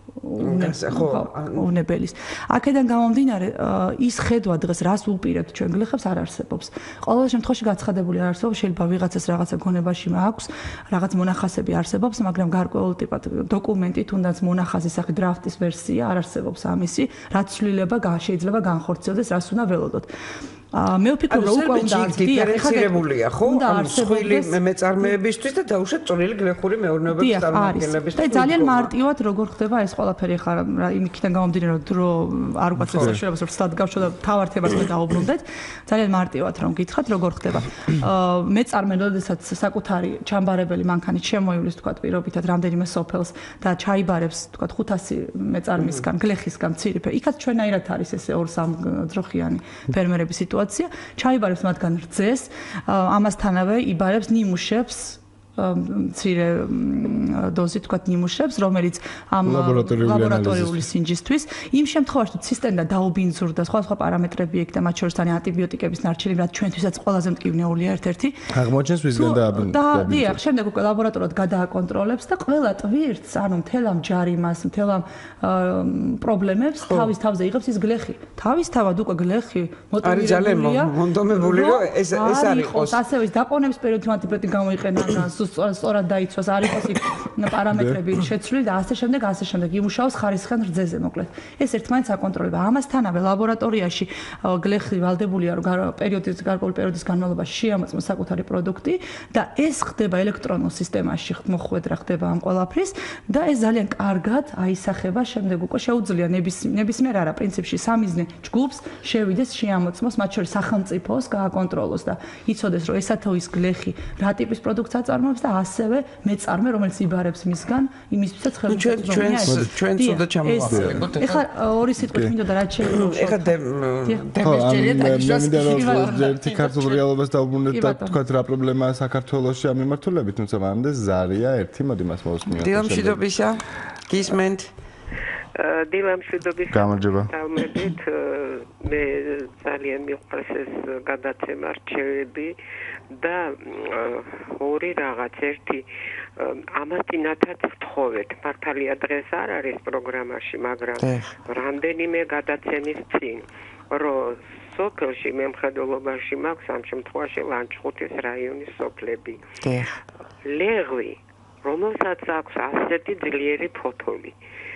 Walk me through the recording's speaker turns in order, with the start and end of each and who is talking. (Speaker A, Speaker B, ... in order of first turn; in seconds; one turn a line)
Speaker A: 0.2-20.1
Speaker B: 0.4-1.7
Speaker A: 20.7-25.1
Speaker B: 21.3-28.9
Speaker A: 27.1-68.4
Speaker B: 32.9-33.2
Speaker C: 59.5-60.9
Speaker C: 68.5-70.4
Speaker A: 69.2-127.0
Speaker B: 80.0-83.0
Speaker C: 87.7-88.0
Speaker B: 118.7-121.4
Speaker C: 120.7-121.1
Speaker C: 122.0-122.3
Speaker B: 122.8-126.3
Speaker C: 124.4-133.2
Speaker A: 127.7-128.2
Speaker B: 132.5-134.7
Speaker D: 135.6-142.6
Speaker C: 136.7-137.3
Speaker D: 143.1-145.9
Speaker D: 146.4-159.6
Speaker B: 151.0-151.3
Speaker B: 159.6-160.0
Speaker D: 160.4-164.3